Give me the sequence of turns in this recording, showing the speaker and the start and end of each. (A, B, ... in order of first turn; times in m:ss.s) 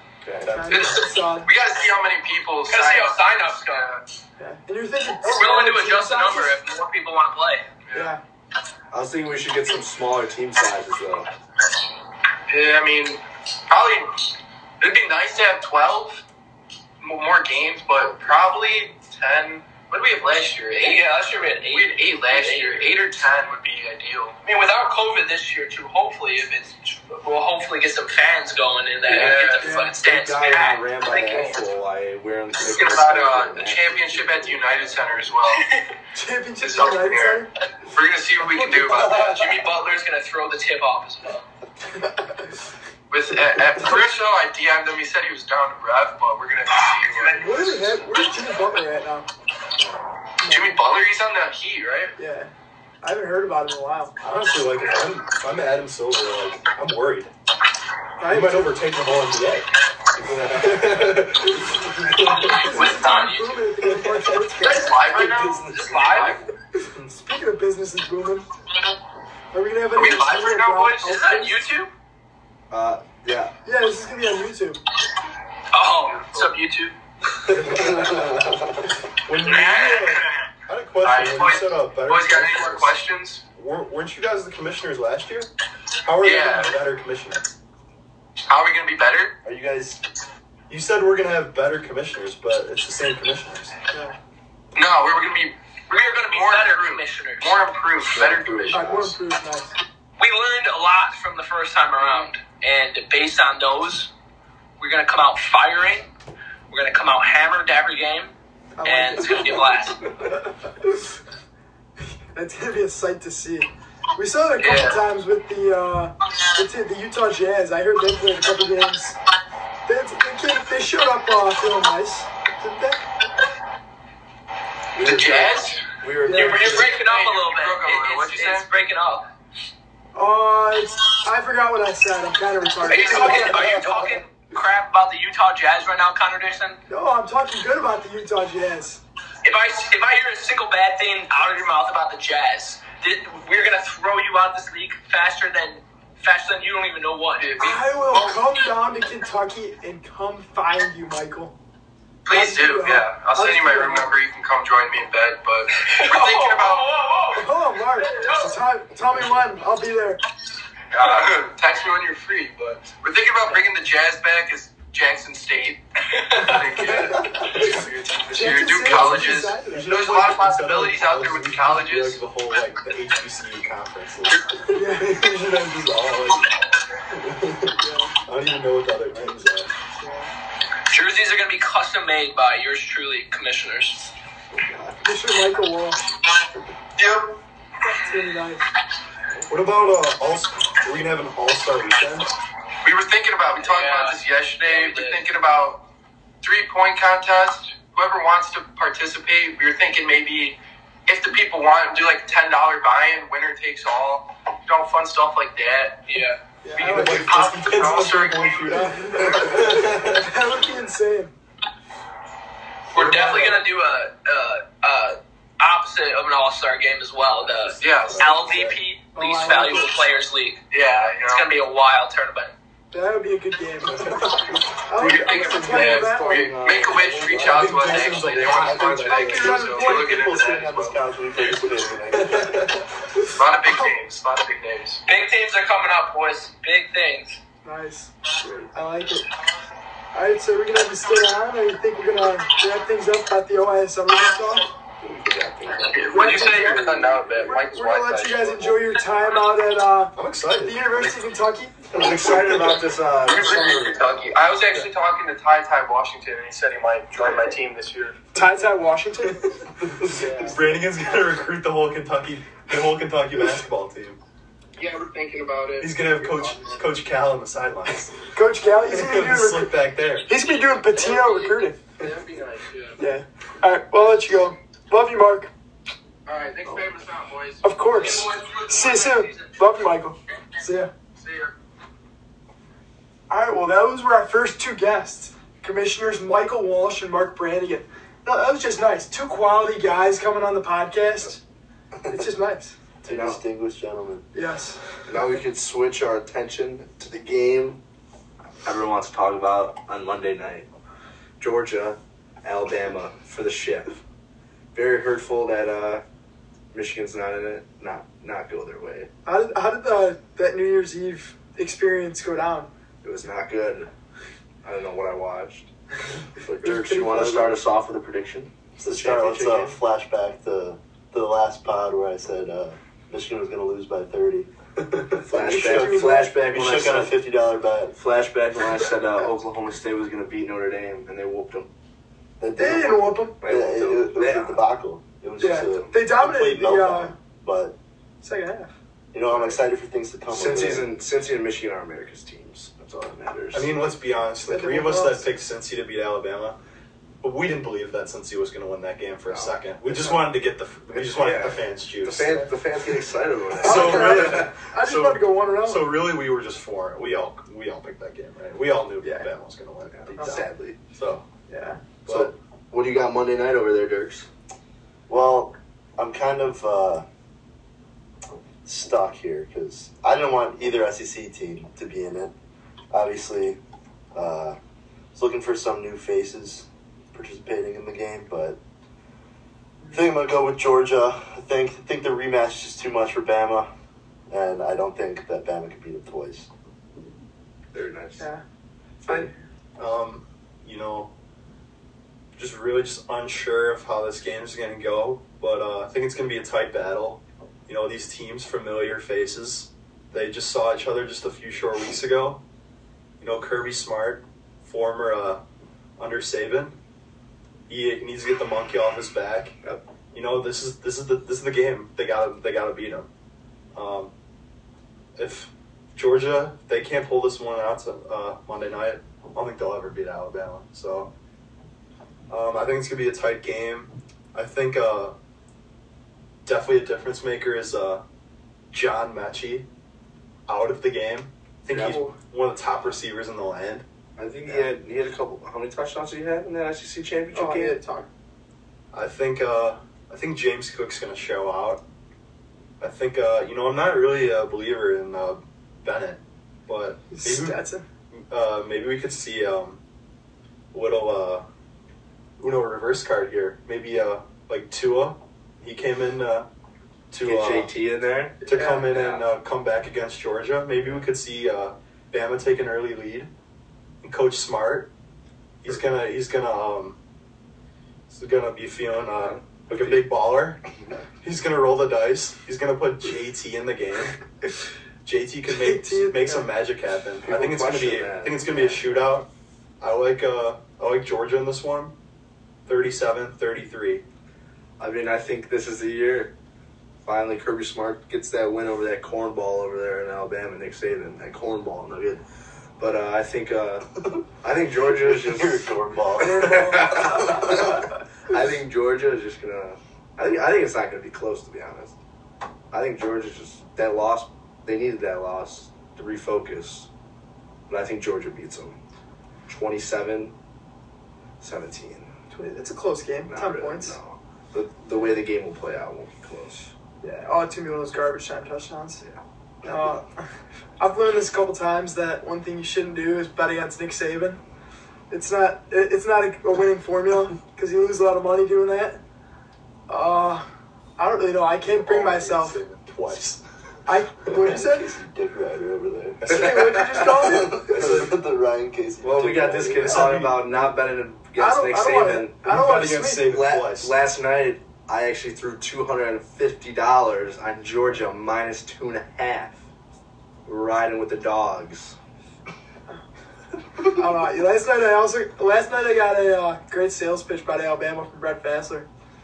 0:00.2-0:01.0 A
0:00.5-0:01.5 B
0:00.7-0:04.0 C
0:02.7-0:03.9 D
0:04.4-0:06.6 B
0:05.2-0:07.6 D
0:07.9-0:08.1 C
0:07.9-0:08.2 B
0:08.9-0:11.3 A
0:12.5-0:14.3 C
0:14.8-0:16.2 C
0:17.0-0:21.0 C
0:20.8-0:23.0 D
0:21.6-0:24.4 C
0:24.4-0:31.6 D
0:29.0-0:29.8 C
0:29.1-0:34.6 A
0:29.6-0:29.9 B
0:32.5-0:35.7 C
0:36.1-0:37.5 B
0:36.6-0:39.6 C
0:38.8-0:41.4 D
0:43.1-0:47.9 C
0:47.1-0:49.3 B
0:49.8-0:50.0 A
0:50.4-0:50.8 B
0:50.5-0:52.1 C
0:52.2-0:52.5 B
0:53.0-0:54.2 B
0:54.2-0:57.3 E
0:58.2-0:58.8 B
0:58.2-1:02.8 E
1:00.3-1:01.2 A
1:02.4-1:03.6 D
1:02.4-1:05.0 B
1:04.6-1:06.5 C
1:05.6-1:06.4 D
1:06.8-1:08.5 B
1:06.8-1:07.2 E
1:09.5-1:11.7 B
1:09.9-1:11.1 C
1:11.0-1:11.9 D
1:12.7-1:13.5 A
1:13.6-1:14.8 B
1:15.7-1:16.9 D
1:16.0-1:16.6 C
1:17.5-1:18.4 E
1:17.6-1:18.6 A
1:19.2-1:25.5 E
1:19.5-1:20.0 C
1:21.0-1:23.4 C
1:26.0-1:27.5 E
1:26.2-1:26.8 C
1:28.5-1:29.3 C
1:29.4-1:30.0 F
1:30.7-1:33.7 E
1:33.9-1:34.2 B
1:34.7-1:38.9 C
1:35.9-1:37.6 D
1:38.1-1:39.1 A
1:38.7-1:39.8 B
1:40.2-1:44.1 D
1:44.8-1:46.1 D
1:46.7-1:48.3 D
1:48.8-1:49.6 B
1:48.8-1:50.1 D
1:52.3-1:59.2 B
1:54.6-1:55.0 C
1:59.8-2:03.0 B
2:04.9-2:06.9 A
2:05.0-2:05.9 C
2:06.2-2:06.9 B
2:06.2-2:09.2 D
2:06.8-2:08.7 C
2:10.1-2:13.8 B
2:12.8-2:16.8 D
2:16.9-2:19.0 B
2:19.4-2:27.5 D
2:27.3-2:28.4 C
2:27.6-2:31.5 B
2:32.2-2:37.0 C
2:32.3-2:34.1 B
2:35.9-2:38.5 D
2:37.3-2:40.2 B
2:40.9-2:52.3 C
2:47.0-2:47.8 E
2:48.3-2:49.9 B
2:48.8-2:56.6 E
2:54.7-2:55.1 B
2:57.1-2:59.7 E
2:57.8-2:58.1 B
3:00.0-3:00.3 B
3:00.9-3:04.0 D
3:04.5-3:05.1 A
3:05.0-3:06.1 B
3:07.0-3:07.4 C
3:07.8-3:08.6 B
3:09.5-3:12.3 E
3:12.8-3:15.8 C
3:13.6-3:15.2 D
3:16.4-3:26.2 C
3:26.1-3:26.4 D
3:26.6-3:27.4 B
3:26.8-3:28.8 C
3:26.8-3:30.5 E
3:28.7-3:31.3 B
3:32.9-3:40.6 D
3:32.9-3:33.6 A
3:37.3-3:38.8 E
3:37.8-3:38.4 C
3:39.1-3:40.0 B
3:40.7-3:41.4 C
3:41.2-3:42.5 D
3:42.9-3:44.2 B
3:43.9-3:44.6 E
3:44.9-3:46.5 B
3:44.9-3:49.5 A
3:45.0-3:51.0 C
3:47.3-3:47.7 F
3:47.4-3:49.0 E
3:48.7-3:52.7 F
3:49.0-3:50.1 B
3:52.1-3:53.3 E
3:53.4-3:55.0 C
3:55.0-3:57.4 D
3:57.6-3:58.1 B
3:58.4-3:58.7 A
3:58.7-3:59.3 B
4:00.1-4:04.7 B
4:05.0-4:07.3 A
4:05.8-4:08.8 C
4:06.1-4:11.8 B
4:10.1-4:11.1 E
4:11.9-4:14.2 A
4:12.0-4:13.0 E
4:13.2-4:18.2 C
4:18.3-4:19.5 B
4:19.8-4:24.2 E
4:20.1-4:20.7 A
4:20.1-4:20.5 C
4:24.8-4:26.8 C
4:25.8-4:28.2 E
4:28.3-4:31.8 B
4:28.8-4:30.3 E
4:30.8-4:33.0 C
4:33.0-4:35.5 B
4:36.2-4:38.3 C
4:37.6-4:40.9 B
4:37.9-4:39.4 D
4:41.2-4:41.5 C
4:43.3-4:51.4 B
4:52.1-4:52.7 B
4:53.0-4:54.3 F
4:53.0-4:53.4 A
4:54.3-4:54.8 B
4:55.1-4:57.8 A
4:58.6-5:00.7 A
5:01.4-5:04.0 A
5:04.7-5:06.0 A
5:06.7-5:09.1 A
5:09.2-5:12.7 B
5:13.0-5:13.9 A
5:14.6-5:15.7 A
5:16.4-5:19.8 A
5:16.6-5:17.5 B
5:18.8-5:24.5 F
5:24.8-5:25.2 E
5:25.2-5:28.0 F
5:25.2-5:27.2 A
5:25.4-5:26.3 B
5:28.0-5:31.7 A
5:32.4-5:37.8 F
5:32.5-5:33.4 B
5:33.4-5:34.6 A
5:35.4-5:37.1 B
5:35.6-5:35.9 A
5:38.2-5:38.7 B
5:39.1-5:40.9 F
5:40.3-5:43.7 A
5:43.5-5:46.6 E
5:44.4-5:45.3 B
5:47.2-5:52.5 E
5:49.3-5:49.5 A
5:50.9-5:54.5 A
5:53.6-6:00.3 E
5:53.6-5:55.8 B
5:59.0-5:59.3 B
5:59.9-6:00.8 A
6:00.2-6:00.5 B
6:00.9-6:01.2 E
6:01.5-6:01.8 B
6:02.0-6:02.3 E
6:02.1-6:04.3 A
6:05.1-6:07.0 F
6:08.6-6:12.3 F
6:12.9-6:13.6 F
6:14.1-6:14.6 F
6:15.1-6:18.6 F
6:19.8-6:20.1 B
6:19.9-6:23.7 F
6:24.3-6:26.5 F
6:27.7-6:28.2 A
6:29.0-6:29.3 A
6:29.1-6:29.3 B
6:29.8-6:31.1 E
6:32.3-6:42.4 E
6:43.2-6:45.4 E
6:46.0-6:46.7 E
6:47.7-6:49.6 E
6:50.1-6:53.1 E
6:53.7-6:54.1 E
6:55.2-7:01.1 E
7:02.3-7:05.1 E
7:06.4-7:08.0 E
7:08.7-7:09.7 E
7:10.5-7:13.8 E
7:11.7-7:12.0 A
7:11.8-7:12.1 B
7:14.2-7:17.8 A
7:17.3-7:18.1 B
7:18.9-7:21.8 E
7:22.8-7:27.6 E
7:27.1-7:27.8 B
7:28.1-7:29.8 E
7:30.7-7:31.4 E
7:32.4-7:36.5 E
7:37.1-7:37.7 E
7:37.2-7:39.2 A
7:38.4-7:43.3 E
7:38.4-7:38.9 B
7:44.0-7:44.9 E
7:45.6-7:47.0 E
7:48.1-7:50.6 E
7:49.1-7:50.0 A
7:51.2-7:54.2 E
7:55.0-7:59.3 E
7:55.5-7:56.5 B
7:57.2-7:59.1 A
7:59.8-8:01.9 E
8:02.6-8:04.0 E
8:04.8-8:06.3 A
8:07.0-8:12.2 A
8:12.8-8:15.6 A
8:14.9-8:17.3 F
8:16.2-8:17.6 B
8:16.4-8:21.9 A
8:22.7-8:26.9 A
8:27.7-8:28.8 A
8:29.4-8:30.3 A
8:31.4-8:32.2 A
8:32.3-8:34.0 B
8:33.3-8:36.7 A
8:37.0-8:39.0 B
8:39.6-8:40.2 B
8:40.8-8:44.4 B
8:45.1-8:49.0 B
8:49.9-8:50.4 B
8:51.0-8:52.6 B
8:51.7-8:53.4 E
8:53.8-8:54.9 B
8:54.4-8:56.4 F
8:56.2-8:56.6 E
8:56.3-8:57.8 B
8:57.2-9:00.1 F
8:57.6-8:58.2 E
8:59.0-9:02.4 A
8:59.8-9:00.7 E
9:01.4-9:03.3 B
9:02.4-9:03.9 E
9:03.2-9:09.6 A
9:10.4-9:12.0 A
9:13.8-9:18.9 B